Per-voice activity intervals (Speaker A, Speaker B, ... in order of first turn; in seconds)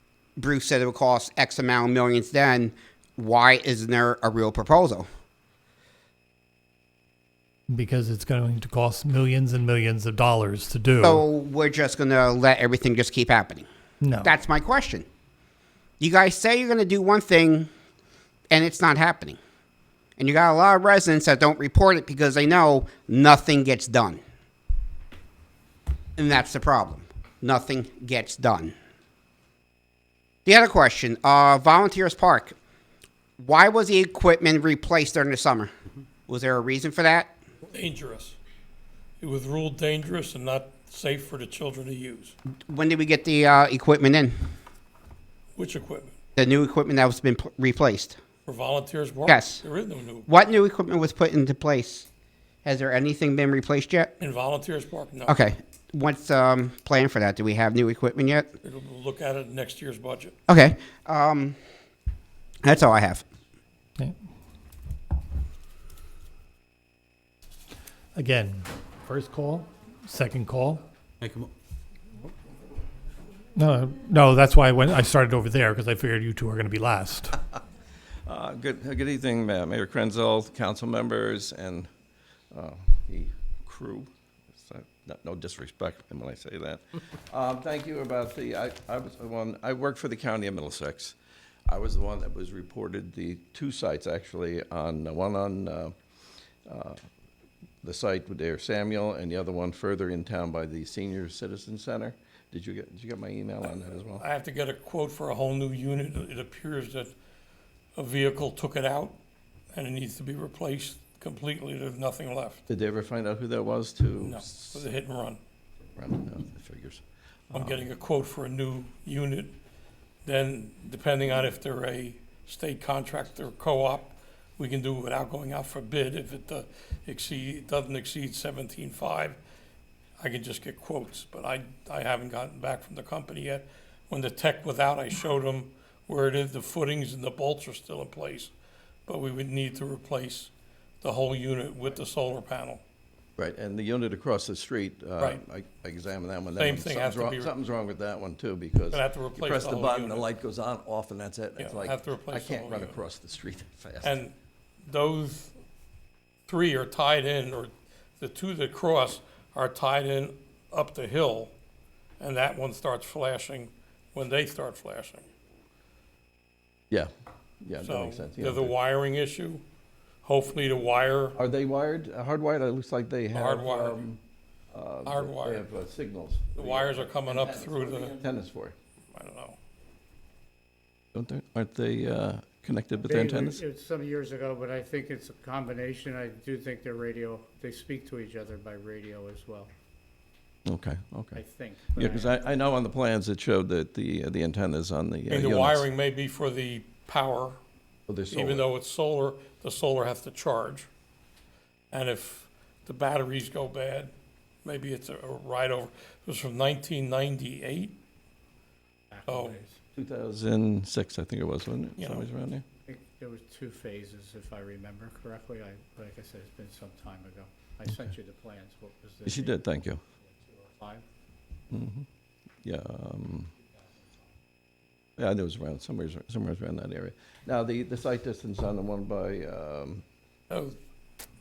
Speaker A: 0.4-5.0, 11.0-13.7, 14.2-15.1, 16.0-17.7, 18.5-19.4, 20.2-24.2, 26.2-28.7, 30.4-32.5, 33.4-35.7, 36.3-37.3, 42.7-44.4, 46.4-48.2, 49.3-49.6, 50.3-52.1, 52.6-54.1, 55.3-58.5, 60.5-61.6, 62.6-63.2
Speaker B: 7.7-11.2, 14.0-14.3, 68.2-70.8, 73.6-77.4
Speaker C: 37.7-38.4, 39.2-42.4, 45.5-46.1, 48.5-50.3, 54.2-55.4, 58.6-60.3, 104.2-107.1, 108.0-109.2, 109.7-112.6, 114.2-115.4, 117.5-119.5, 120.2-129.4, 130.2-138.5, 139.1-142.8, 146.6-147.5, 148.9-150.3, 151.6-153.0, 154.0-155.6, 156.5-161.5, 162.2-165.2, 167.8-169.6, 170.2-171.4, 173.3-174.0, 175.1-175.7, 176.6-178.2, 179.1-179.6, 195.3-197.6, 198.3-200.9, 201.9-204.1, 204.7-208.0, 209.3-209.6, 212.0-212.3, 230.5-230.8
Speaker D: 78.3-81.9, 82.5-91.2, 91.7-95.9, 96.7-97.0, 97.8-104.2, 112.7-114.8, 116.0-117.9, 143.4-154.2, 167.6-168.8, 171.3-174.2, 174.7-178.8, 181.1-183.6, 190.7-191.4, 191.9-195.9, 198.1-198.7, 210.0-212.6, 219.2-220.0, 221.7-222.1, 222.6-223.5, 225.2-230.0
Speaker E: 183.0-189.7, 191.4-192.3, 209.1-209.8, 212.9-219.6, 220.2-221.1